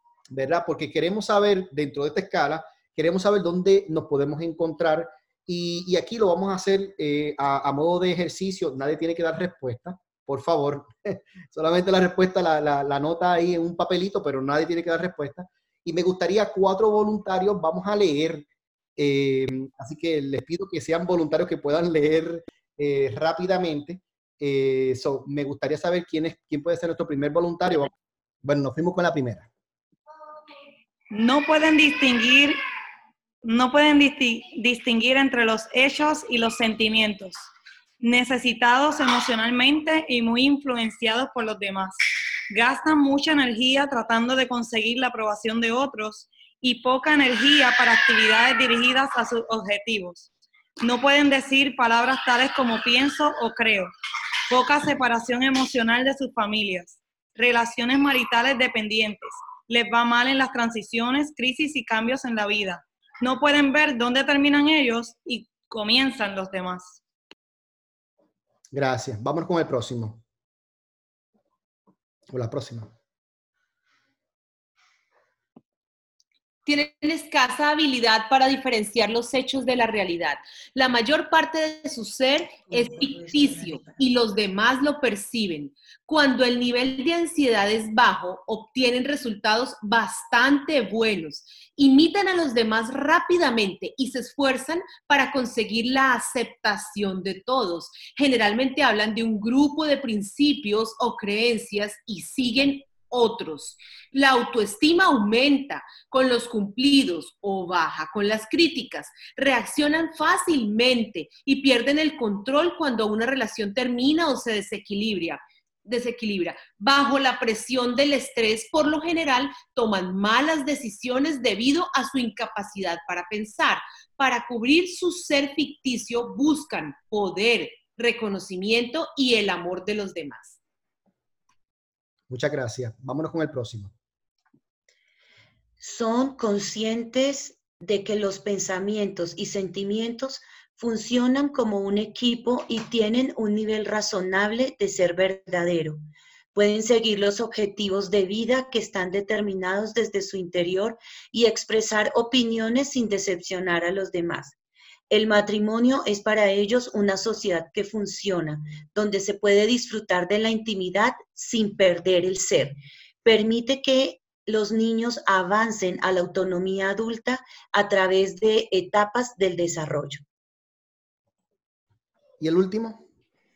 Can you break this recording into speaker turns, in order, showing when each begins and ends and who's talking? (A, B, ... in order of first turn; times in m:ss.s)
0:00.3-0:27.9 A
0:28.4-0:29.5 A
0:31.1-0:32.6 B
0:33.4-0:37.5 B
0:38.0-0:42.0 B
0:42.5-0:50.3 B
0:50.8-0:53.9 B
0:54.5-1:07.0 B
1:08.7-1:10.2 A
1:12.3-1:12.9 A
1:16.6-2:10.6 C
2:12.3-2:13.9 A
2:15.8-2:26.0 D
2:26.5-2:34.6 D
2:35.1-2:50.2 D
2:52.4-2:53.0 A